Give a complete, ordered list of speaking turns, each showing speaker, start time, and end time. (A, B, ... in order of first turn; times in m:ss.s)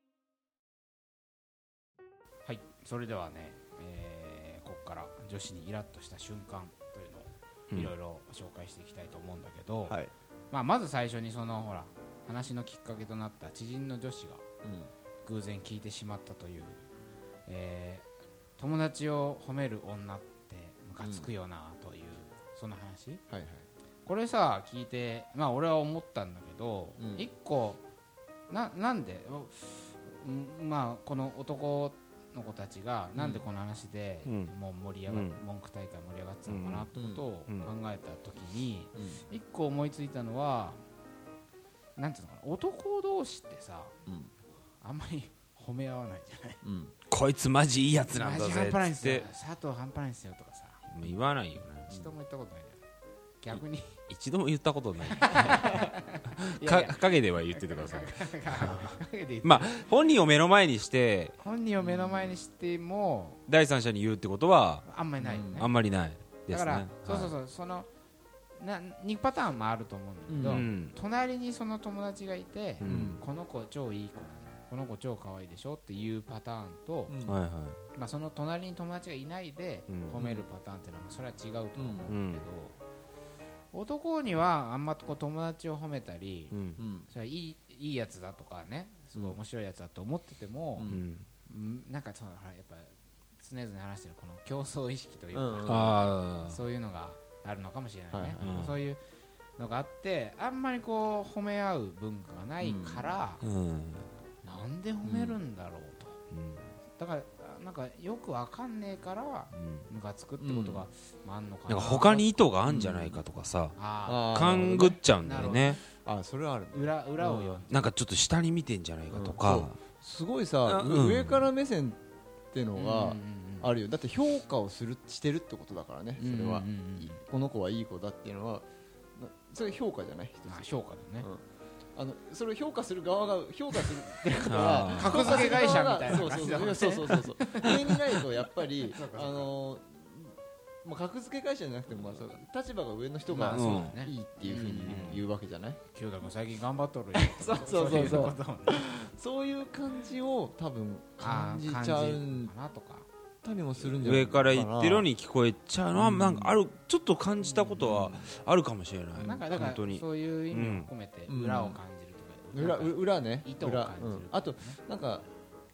0:02.5-0:10.0 A
0:09.9-0:10.1 B
0:10.5-0:14.4 A
0:14.6-0:14.9 B
0:15.2-0:16.8 A
0:17.5-0:18.1 A
0:18.6-0:23.2 A
0:21.0-0:21.3 B
0:23.3-0:23.7 B
0:24.1-0:27.8 A
0:27.0-0:27.3 B
0:28.5-0:40.8 A
0:33.2-0:33.4 B
0:34.2-0:34.5 C
0:35.1-0:35.4 C
0:36.5-0:36.9 C
0:37.0-0:37.2 B
0:39.0-0:39.2 B
0:42.0-0:44.0 A
0:44.1-0:44.3 B
0:44.8-0:46.6 A
0:46.6-0:46.9 B
0:47.1-0:49.3 C
0:48.1-0:50.8 A
0:50.9-0:51.9 C
0:51.9-0:52.8 A
0:53.4-0:54.0 A
0:54.1-0:55.9 C
0:55.1-0:59.8 A
0:56.4-1:01.4 C
1:01.4-1:03.4 A
1:01.8-1:02.4 B
1:03.5-1:04.9 C
1:04.9-1:05.7 A
1:05.2-1:05.7 B
1:05.6-1:07.4 C
1:06.5-1:07.9 A
1:08.6-1:17.1 A
1:10.3-1:10.7 B
1:10.4-1:10.9 C
1:12.8-1:13.2 C
1:12.8-1:13.2 B
1:17.1-1:17.4 B
1:17.2-1:17.8 C
1:18.0-1:22.8 A
1:19.9-1:20.2 C
1:20.2-1:20.5 B
1:21.8-1:22.1 B
1:22.1-1:22.5 C
1:23.7-1:26.6 A
1:26.5-1:26.8 C
1:26.8-1:27.1 B
1:27.1-1:31.0 A
1:30.8-1:31.0 B
1:30.9-1:31.3 C
1:31.5-1:39.0 A
1:35.3-1:36.0 B
1:35.7-1:36.6 C
1:38.1-1:38.6 B
1:38.4-1:38.8 C
1:39.6-1:43.4 A
1:42.6-1:43.2 B
1:43.4-1:44.1 C
1:44.4-1:46.2 A
1:45.0-1:45.4 C
1:46.3-1:46.7 C
1:47.0-1:52.3 A
1:49.5-1:49.9 C
1:50.4-1:50.9 B
1:51.7-1:53.8 C
1:52.7-1:53.2 B
1:53.8-1:55.8 A
1:54.1-1:57.6 B
1:54.3-1:55.8 C
1:56.7-1:57.9 A
1:57.7-1:59.8 C
1:59.1-2:02.0 B
2:00.7-2:01.5 C
2:02.5-2:10.7 B
2:02.8-2:03.7 A
2:06.2-2:07.2 A
2:10.5-2:11.3 A
2:12.0-2:25.8 B
2:14.5-2:15.8 C
2:14.8-2:18.2 A
2:18.8-2:19.5 A
2:23.3-2:25.2 A
2:23.5-2:23.9 C
2:24.8-2:25.2 C
2:25.9-2:28.9 A
2:27.2-2:32.5 B
2:31.2-2:33.1 A
2:33.4-2:35.1 B
2:34.0-2:40.9 C
2:36.0-2:36.6 B
2:37.4-2:37.9 A
2:37.8-2:38.3 B
2:39.2-2:39.5 B
2:39.2-2:44.8 A
2:41.3-2:41.8 B
2:42.5-2:45.3 B